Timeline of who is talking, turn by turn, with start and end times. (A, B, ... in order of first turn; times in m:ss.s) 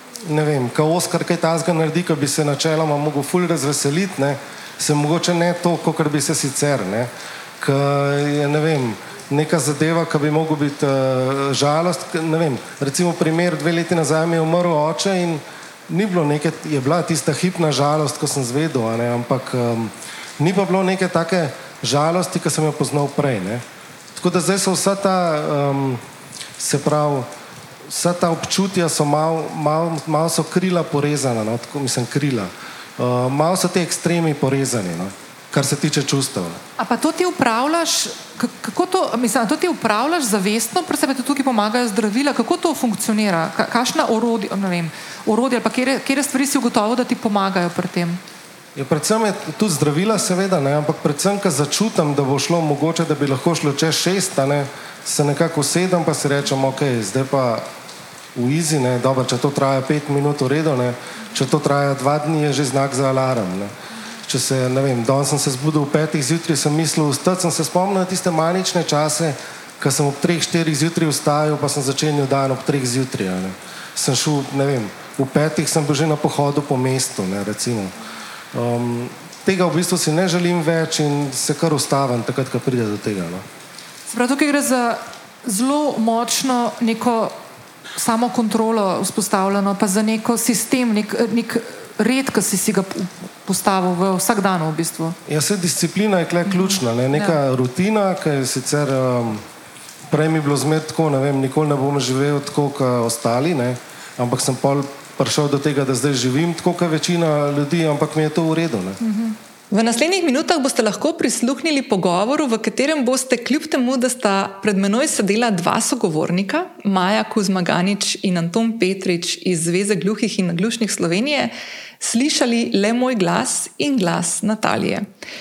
0:00.3-0:26.0 A
0:26.6-0:27.3 A
0:27.9-0:36.6 A
0:36.8-0:48.2 B
0:48.8-0:57.6 A
0:58.3-1:03.7 A
1:04.2-1:17.9 A
1:18.5-1:23.4 A
1:24.1-1:27.3 B
1:28.0-1:35.2 B
1:35.3-1:39.4 A
1:36.5-1:37.4 B
1:40.1-1:49.0 A
1:49.0-1:49.3 B
1:49.7-2:05.1 C